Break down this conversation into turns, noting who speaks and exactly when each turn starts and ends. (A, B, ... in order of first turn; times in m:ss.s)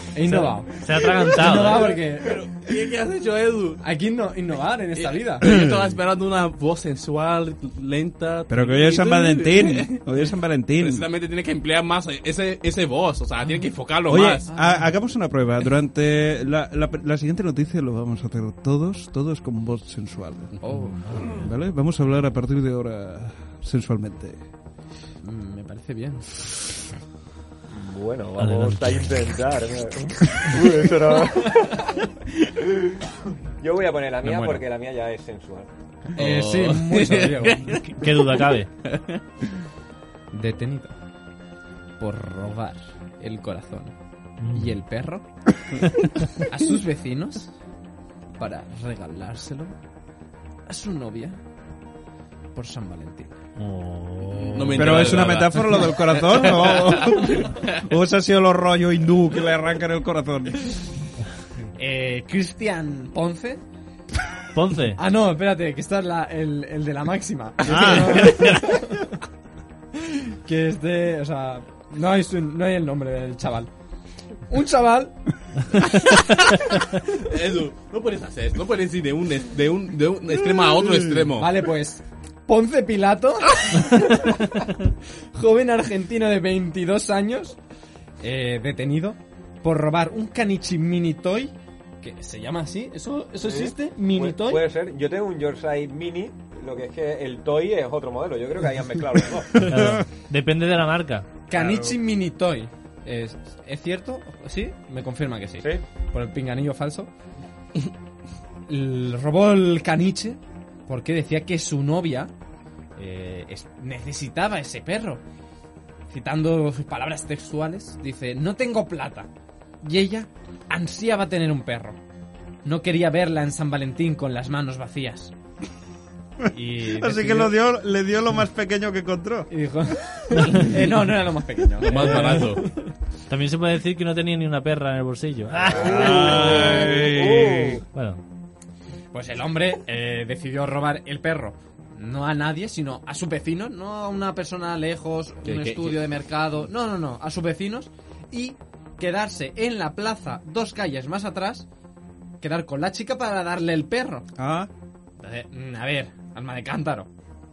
0:00.1-0:00.7 A
0:00.3-0:01.9 B
0:01.3-0:02.4 A
0:01.7-0:03.8 C
0:03.8-0:05.5 A
0:05.0-0:10.0 C
0:08.5-0:11.1 D
0:10.8-0:14.4 C
0:14.1-0:20.6 D
0:14.5-0:14.9 A
0:20.6-0:21.2 A
0:21.0-0:21.4 B
0:21.2-0:24.4 D
0:25.2-0:26.3 A
0:27.7-0:32.1 E
0:28.4-0:29.1 B
0:33.6-0:35.7 E
0:34.2-0:34.6 A
0:36.2-0:37.7 A
0:36.2-0:39.2 C
0:37.7-0:38.7 B
0:40.3-0:41.0 A
0:42.0-0:44.0 A
0:44.4-0:44.8 B
0:44.5-0:45.3 A
0:46.5-0:47.5 A
0:48.4-0:49.8 A
0:50.7-0:51.4 A
0:52.6-0:53.3 A
0:53.6-0:55.4 B
0:54.4-0:57.6 C
0:54.8-1:00.8 D
1:01.8-1:03.6 A
1:04.5-1:05.0 B
1:05.0-1:09.1 A
1:07.7-1:08.4 D
1:10.0-1:13.7 A
1:14.5-1:15.2 A
1:15.7-1:16.3 A
1:17.2-1:21.7 C
1:21.4-1:24.8 A
1:25.3-1:27.6 A
1:28.2-1:34.6 A
1:33.4-1:39.7 E
1:39.6-1:41.3 B
1:39.7-1:40.0 D
1:41.5-1:47.1 A
1:41.5-1:42.0 D
1:48.7-1:52.3 A
1:53.0-1:55.2 A
1:56.1-1:59.3 A
1:59.8-2:02.0 A
2:02.6-2:05.3 A
2:06.5-2:07.6 A
2:06.8-2:09.5 D
2:09.5-2:12.8 A
2:11.8-2:12.7 C
2:12.0-2:12.5 B
2:13.3-2:16.7 B
2:15.7-2:17.8 D
2:15.7-2:17.8 E
2:17.9-2:18.2 B
2:19.1-2:31.7 A
2:25.4-2:26.1 C
2:32.4-2:34.3 A
2:34.4-2:34.7 D
2:35.2-2:37.1 A